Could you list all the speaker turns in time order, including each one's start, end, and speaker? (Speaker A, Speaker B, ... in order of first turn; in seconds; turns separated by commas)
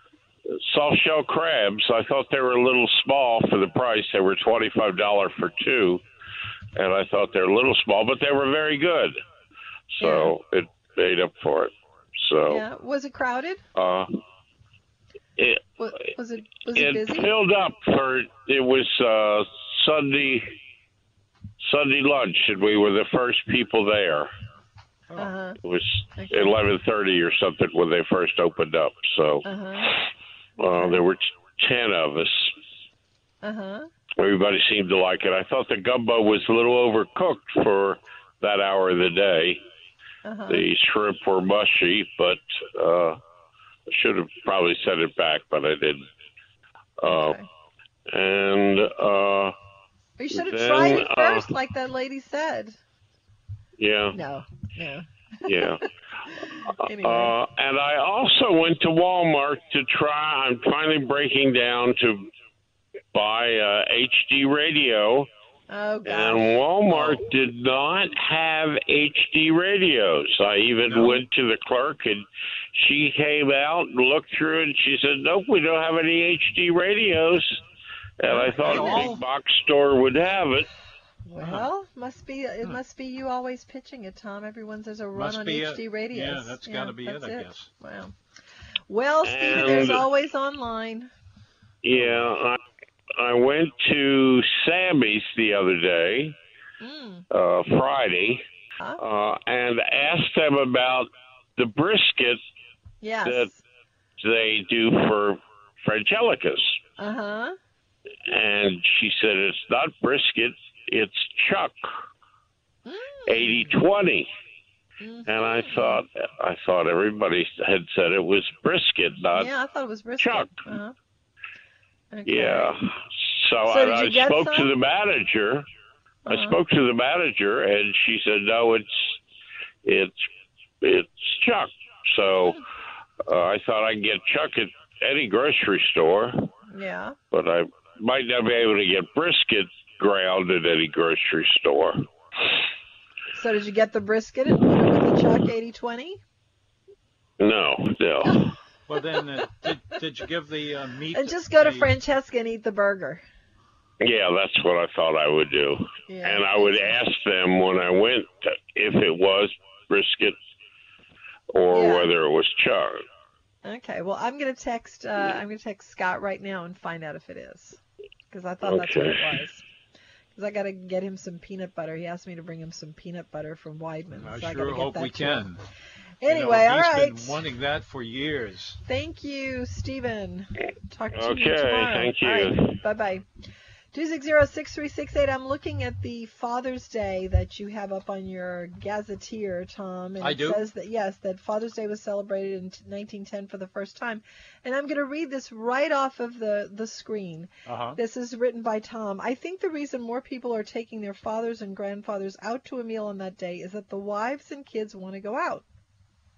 Speaker A: 0.5-6.0, Speaker A: 6.8-9.2, Speaker A: 10.0-12.6, Speaker B: 10.0-10.3, Speaker B: 12.5-13.6, Speaker A: 13.8-14.2, Speaker A: 15.4-15.7, Speaker B: 15.8-17.3, Speaker A: 16.7-20.5, Speaker A: 21.6-24.3, Speaker B: 25.2-25.6, Speaker A: 25.6-30.0, Speaker B: 26.2-26.6, Speaker B: 29.4-30.0, Speaker A: 30.6-32.5, Speaker B: 30.8-31.0, Speaker B: 33.4-33.9, Speaker A: 34.2-39.6, Speaker B: 40.2-40.7, Speaker A: 40.5-43.2, Speaker A: 43.9-46.1, Speaker A: 47.0-47.4, Speaker B: 47.1-47.5, Speaker A: 48.1-49.5, Speaker B: 50.2-52.8, Speaker A: 50.3-51.5, Speaker A: 53.8-54.2, Speaker B: 54.1-57.3, Speaker A: 55.5-55.8, Speaker A: 56.9-62.3, Speaker A: 63.1-65.3, Speaker B: 65.7-66.6, Speaker A: 66.1-77.6, Speaker C: 66.9-67.2, Speaker C: 70.9-71.2, Speaker A: 78.2-80.7, Speaker B: 78.3-79.2, Speaker C: 78.4-79.2, Speaker B: 81.2-88.1, Speaker C: 81.4-81.7, Speaker C: 85.1-87.7, Speaker B: 88.9-91.1, Speaker A: 89.2-90.1, Speaker A: 91.8-92.6, Speaker C: 91.9-92.3, Speaker A: 93.2-96.4, Speaker B: 96.8-97.2, Speaker A: 97.3-98.4, Speaker A: 99.0-102.4, Speaker B: 103.0-103.6, Speaker A: 104.2-106.8, Speaker B: 107.0-107.6, Speaker A: 108.3-111.9, Speaker B: 112.9-113.8, Speaker A: 113.3-114.3, Speaker B: 115.0-116.0, Speaker A: 115.3-119.5, Speaker B: 119.3-121.0, Speaker A: 120.2-120.7, Speaker B: 122.1-122.8, Speaker A: 122.3-125.7, Speaker B: 123.7-124.7, Speaker B: 126.3-126.6, Speaker A: 126.3-129.2, Speaker A: 129.8-130.3, Speaker A: 130.8-132.6, Speaker A: 133.2-136.5, Speaker B: 136.7-137.2, Speaker A: 137.3-142.1, Speaker B: 143.3-146.2, Speaker A: 147.4-148.6, Speaker C: 148.9-151.9, Speaker B: 151.1-153.2, Speaker A: 154.0-160.4, Speaker B: 156.1-157.0, Speaker A: 161.5-163.0, Speaker B: 161.7-162.1, Speaker B: 163.6-169.7, Speaker A: 168.6-169.2, Speaker B: 170.4-175.5, Speaker C: 174.2-175.6, Speaker B: 176.2-177.4, Speaker C: 176.3-178.8, Speaker B: 178.8-183.2, Speaker A: 181.1-182.8, Speaker B: 183.9-205.7, Speaker C: 190.2-190.6, Speaker C: 197.7-198.0